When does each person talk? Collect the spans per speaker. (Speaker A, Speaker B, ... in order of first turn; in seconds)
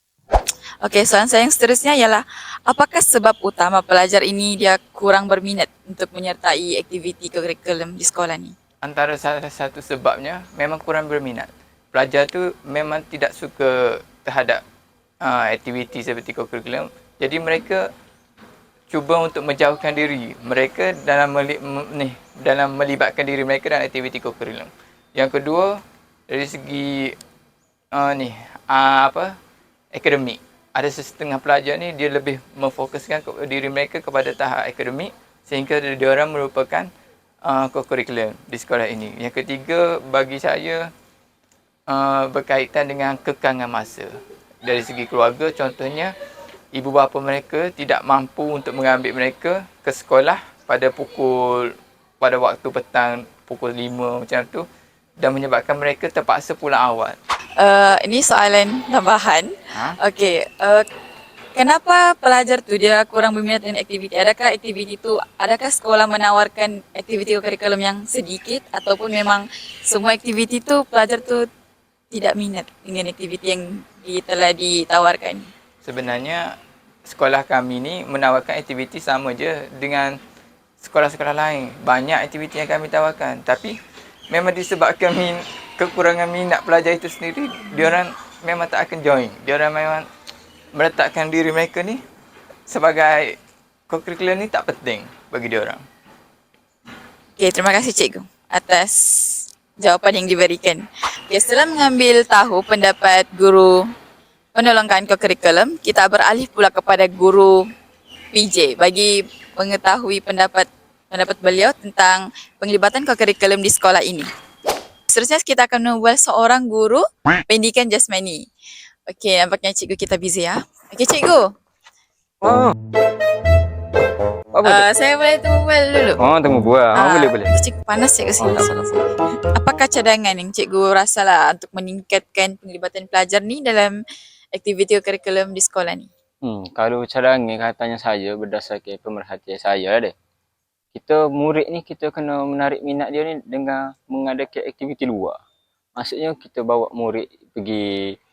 Speaker A: 0.8-8.5, 57.6-59.5, 60.0-60.8, 61.5-71.5, 72.1-75.5, 97.4-103.7, 104.5-107.5, 108.3-114.3, 115.1-118.4, 119.1-121.5, 124.6-126.2, 126.9-133.9, 134.5-136.1
Speaker B: 8.8-14.6, 15.2-17.8, 18.9-25.7, 26.3-27.1, 27.9-29.3, 29.9-36.9, 37.4-40.9, 41.9-44.1, 44.6-46.1, 46.7-54.6, 55.2-57.1, 75.8-76.5, 77.1-80.1, 80.8-83.7, 84.3-90.0, 90.7-92.0, 92.7-93.3, 93.9-95.8
Speaker C: 122.4-122.7, 124.5-124.9, 126.2-127.5, 128.4-128.8, 136.4-140.1, 140.9-145.3, 146.0-147.8